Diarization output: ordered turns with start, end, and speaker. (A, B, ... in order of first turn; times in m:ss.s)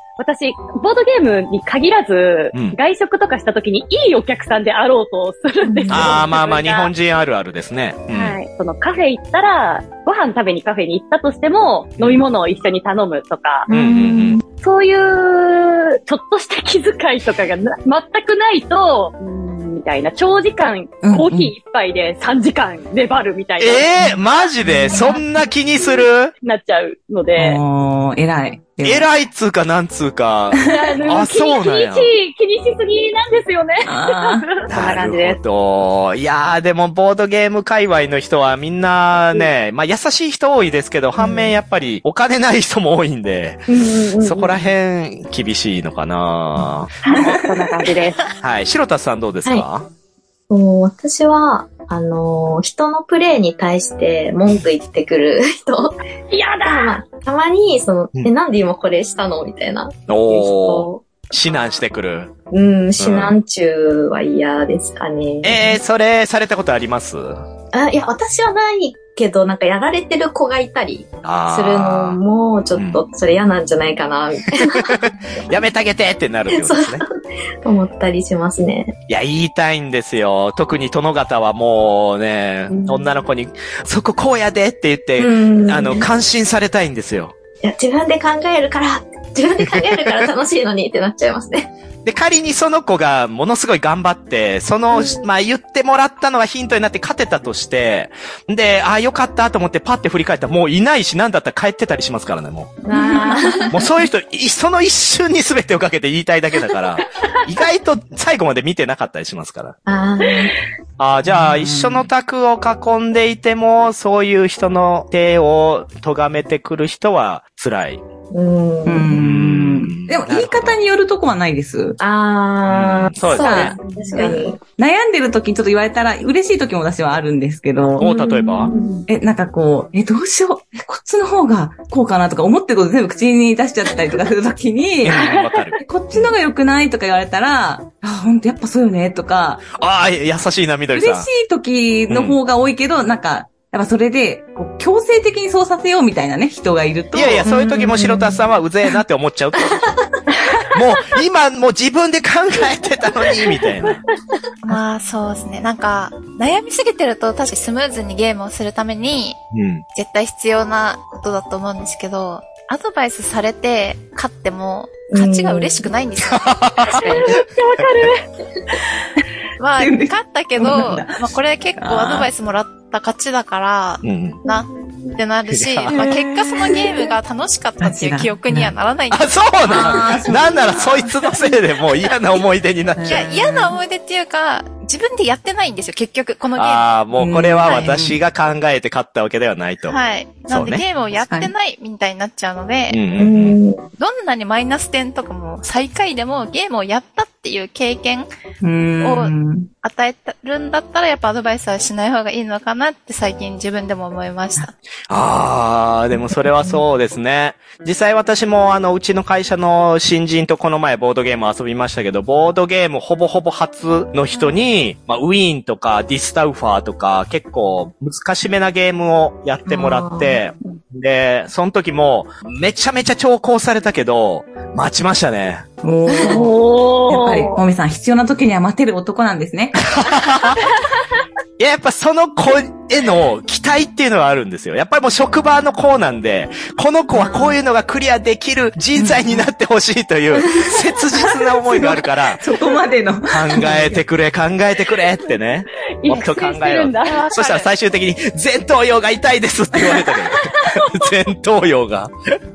0:00.2-0:06.9 A
0:05.6-0:06.2 B
0:05.9-0:08.4 C
0:08.1-0:13.7 A
0:12.0-0:12.2 C
0:13.7-0:14.4 B
0:13.7-0:14.4 C
0:14.6-0:23.9 A
0:21.0-0:21.5 D
0:23.6-0:26.3 C
0:24.0-0:25.2 D
0:24.9-0:25.2 A
0:26.4-0:27.6 A
0:27.4-0:29.1 D
0:28.8-0:32.1 C
0:30.6-0:31.0 D
0:30.6-0:35.4 A
0:33.8-0:34.5 D
0:34.7-0:47.3 C
0:43.8-0:44.1 A
0:47.0-0:48.2 A
0:48.4-0:49.9 C
0:50.5-0:56.0 B
0:56.3-0:57.0 A
0:56.6-1:01.0 B
1:00.1-1:02.3 C
1:02.5-1:05.7 B
1:03.0-1:03.3 C
1:05.4-1:07.4 C
1:07.7-1:15.4 B
1:11.2-1:12.2 C
1:12.7-1:13.0 C
1:14.6-1:17.0 C
1:16.5-1:17.1 B
1:17.6-1:19.0 B
1:19.1-1:27.3 C
1:25.2-1:26.1 B
1:27.6-1:31.7 B
1:29.7-1:30.1 C
1:32.0-1:42.8 C
1:34.9-1:35.3 B
1:42.8-1:43.8 B
1:42.9-1:43.7 D
1:43.7-1:49.8 C
1:49.9-1:50.5 B
1:51.0-1:58.0 C
1:51.2-1:52.1 D
1:58.3-1:59.2 B
1:58.9-2:02.0 D
1:59.2-2:00.8 C
2:02.0-2:04.6 B
2:02.7-2:03.8 C
2:03.3-2:08.1 D
2:08.0-2:08.7 C
2:08.0-2:09.0 B
2:09.1-2:15.2 D
2:15.0-2:16.3 C
2:15.1-2:15.6 A
2:15.8-2:19.7 D
2:19.8-2:21.3 C
2:20.9-2:27.5 D
2:22.1-2:22.4 C
2:27.1-2:30.0 C
2:27.4-2:28.4 B
2:29.6-2:29.9 B
2:30.7-2:34.0 C
2:34.7-2:39.4 E
2:39.5-2:39.8 C
2:39.9-2:46.7 E
2:45.1-2:45.9 B
2:46.2-2:47.0 C
2:46.9-2:47.4 B
2:47.0-2:48.2 A
2:49.6-3:01.1 E
2:49.8-2:52.3 D
2:54.0-2:54.4 C
2:55.5-2:55.9 C
2:55.9-2:57.1 D
2:57.8-2:58.7 D
2:59.1-3:03.3 C
2:59.6-3:01.1 D
3:03.0-3:03.8 D
3:03.1-3:07.0 E
3:06.6-3:10.8 C
3:07.1-3:08.2 D
3:09.9-3:13.0 E
3:11.2-3:11.5 D
3:12.9-3:13.6 C
3:13.2-3:13.8 B
3:14.0-3:18.3 E
3:18.6-3:19.7 D
3:19.0-3:24.7 E
3:25.1-3:45.7 C
3:39.7-3:40.4 B
3:45.8-3:49.8 D
3:46.1-3:46.4 B
3:46.2-3:47.6 A
3:49.8-3:50.7 C
3:51.6-4:02.4 C
3:59.0-3:59.5 D
4:01.2-4:04.0 D
4:03.3-4:12.1 C
4:06.0-4:07.2 A
4:07.0-4:07.7 E
4:10.4-4:10.8 A